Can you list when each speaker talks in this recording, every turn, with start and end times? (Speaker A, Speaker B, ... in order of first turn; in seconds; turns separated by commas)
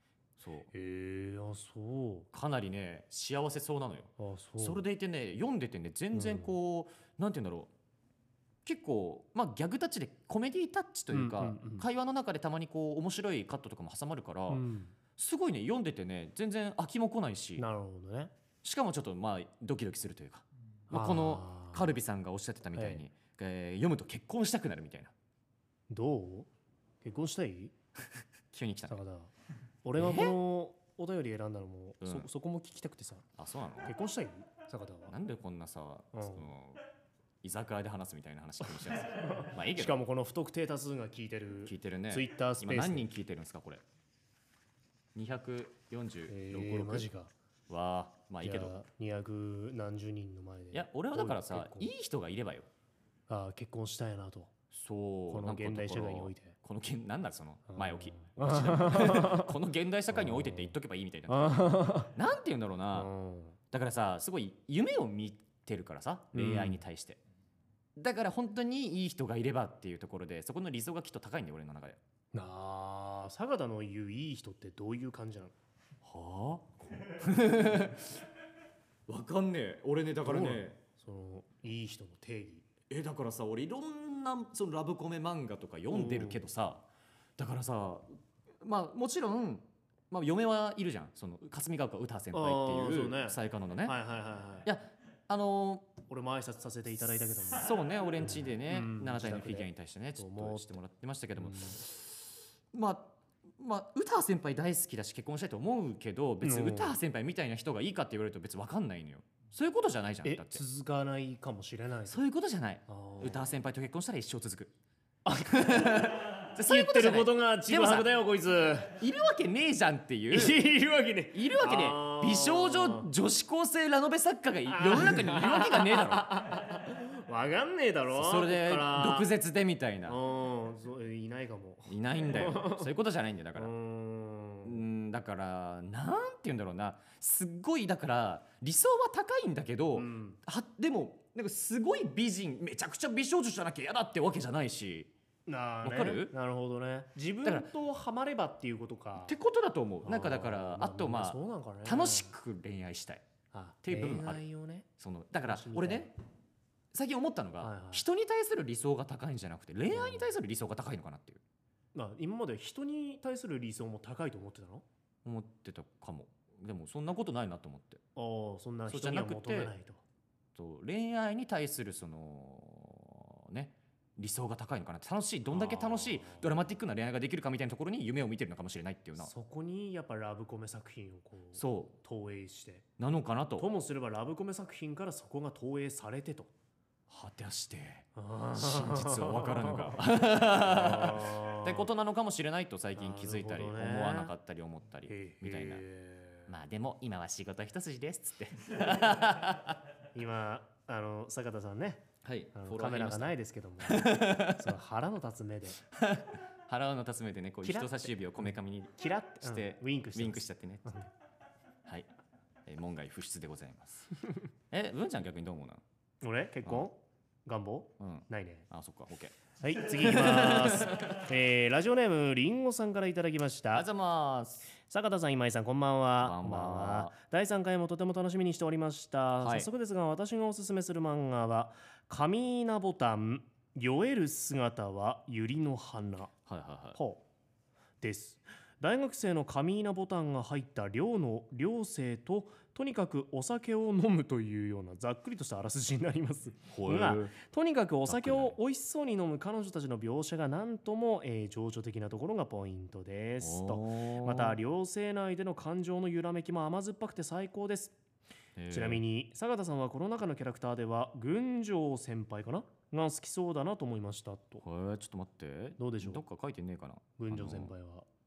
Speaker A: 0.4-0.7, Speaker B: 0.7-2.3, Speaker A: 2.3-7.7, Speaker B: 4.2-4.8, Speaker B: 6.1-6.5, Speaker A: 8.7-14.7, Speaker B: 11.1-11.9, Speaker B: 14.5-14.9, Speaker A: 15.2-17.6, Speaker B: 17.6-18.3, Speaker A: 18.6-25.1, Speaker B: 20.9-21.9, Speaker B: 22.8-23.0, Speaker B: 25.9-26.5, Speaker B: 27.0-27.7, Speaker A: 28.5-29.0, Speaker B: 28.9-29.3, Speaker B: 29.9-33.3, Speaker A: 30.0-30.4, Speaker A: 32.0-32.3, Speaker A: 33.4-33.9, Speaker B: 33.9-35.2, Speaker A: 35.1-36.8, Speaker B: 36.1-36.5, Speaker A: 37.4-40.0, Speaker B: 39.0-43.1, Speaker A: 41.6-43.8, Speaker A: 45.1-47.1, Speaker B: 46.3-47.3, Speaker A: 47.7-48.8, Speaker B: 48.4-51.9, Speaker A: 50.7-52.7, Speaker B: 53.3-54.5, Speaker A: 54.7-63.1, Speaker B: 55.3-56.6, Speaker B: 57.7-59.5, Speaker B: 60.1-60.8, Speaker B: 61.3-62.1, Speaker B: 62.9-63.6, Speaker A: 63.7-67.2, Speaker B: 66.3-66.8, Speaker A: 68.0-72.0, Speaker B: 72.3-75.5, Speaker A: 76.0-78.2, Speaker A: 79.1-80.8, Speaker B: 80.2-82.7, Speaker A: 82.9-86.9, Speaker B: 85.9-86.4, Speaker A: 87.4-88.1, Speaker A: 88.6-94.0, Speaker B: 92.3-94.7, Speaker A: 94.7-95.9, Speaker B: 96.1-97.7, Speaker A: 97.5-110.6, Speaker B: 98.2-100.8, Speaker B: 101.4-101.8, Speaker B: 106.4-107.0, Speaker B: 110.2-112.2, Speaker A: 112.1-114.7, Speaker B: 112.9-113.5, Speaker B: 115.2-119.0, Speaker A: 115.5-118.1, Speaker A: 119.0-120.6, Speaker B: 120.3-123.1, Speaker A: 121.3-126.3, Speaker B: 124.7-129.3, Speaker A: 128.1-130.2, Speaker B: 130.1-132.9, Speaker A: 131.9-133.7, Speaker B: 133.6-134.8, Speaker A: 134.6-145.1, Speaker B: 139.9-140.4, Speaker B: 145.5-149.3, Speaker A: 145.8-146.3, Speaker A: 147.4-147.7, Speaker A: 149.2-153.2, Speaker B: 150.0-152.3, Speaker B: 153.5-154.9, Speaker A: 153.8-154.4, Speaker A: 155.0-156.1, Speaker B: 155.4-156.1, Speaker A: 156.9-161.4, Speaker B: 157.6-158.1, Speaker B: 159.9-160.3, Speaker B: 161.9-164.8, Speaker A: 165.2-168.0, Speaker B: 168.2-170.0, Speaker A: 168.9-169.7, Speaker A: 170.6-179.3, Speaker B: 175.5-176.5, Speaker B: 179.2-182.9, Speaker A: 181.6-182.0, Speaker A: 183.0-183.7, Speaker B: 183.6-186.5, Speaker A: 187.1-195.8, Speaker B: 188.2-191.9, Speaker B: 193.0-194.3, Speaker B: 195.1-196.5, Speaker A: 196.5-199.8, Speaker B: 200.2-205.8, Speaker A: 202.2-204.7, Speaker A: 205.9-211.0, Speaker B: 207.6-208.1, Speaker B: 209.0-211.1, Speaker A: 212.7-214.1, Speaker A: 214.7-215.8, Speaker B: 216.2-218.7, Speaker A: 218.0-219.4, Speaker B: 219.6-223.9, Speaker A: 219.9-221.2, Speaker A: 223.7-224.7, Speaker B: 224.8-236.3, Speaker A: 226.2-227.2, Speaker A: 229.4-229.7, Speaker A: 236.5-237.0, Speaker B: 236.9-237.2, Speaker B: 238.0-258.0, Speaker A: 246.7-247.3, Speaker A: 248.1-248.6, Speaker A: 253.4-254.6, Speaker A: 258.6-259.0, Speaker B: 258.7-264.6, Speaker A: 264.6-267.7, Speaker B: 265.8-266.2, Speaker B: 267.2-268.1